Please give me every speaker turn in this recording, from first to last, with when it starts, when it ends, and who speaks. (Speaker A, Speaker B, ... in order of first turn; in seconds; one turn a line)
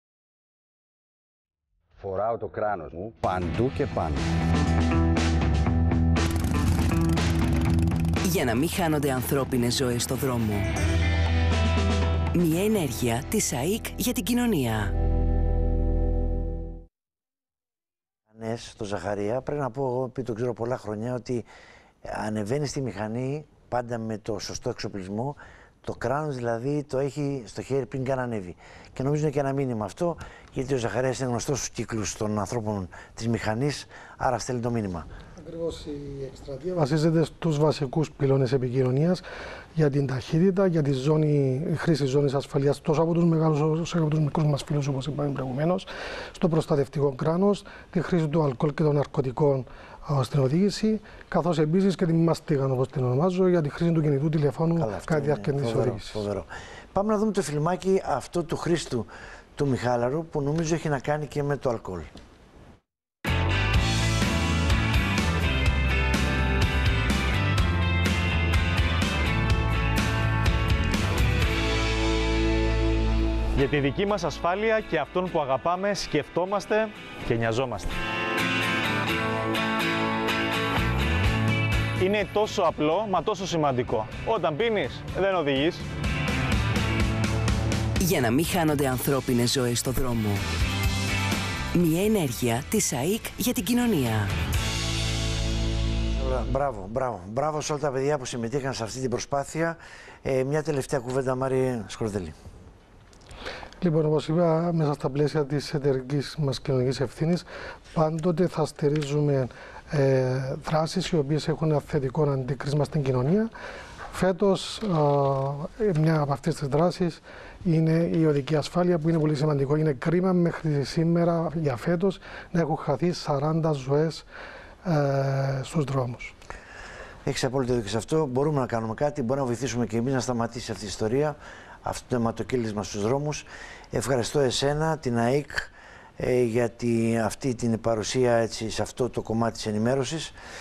Speaker A: 2.0-4.2
Speaker B: 8.2-10.7
Speaker B: 12.3-14.9
Speaker C: 18.3-21.4
Speaker C: 22.0-35.1
Speaker D: 35.4-39.2
Speaker D: 39.7-56.2
Speaker C: 54.8-62.1
Speaker E: 73.5-77.9
Speaker E: 82.0-85.8
Speaker B: 88.0-90.4
Speaker B: 91.7-94.3
Speaker C: 96.1-102.3
Speaker D: 103.8-113.5
Speaker D: 114.1-124.2
Speaker D: 124.8-126.3
Speaker C: 127.2-140.3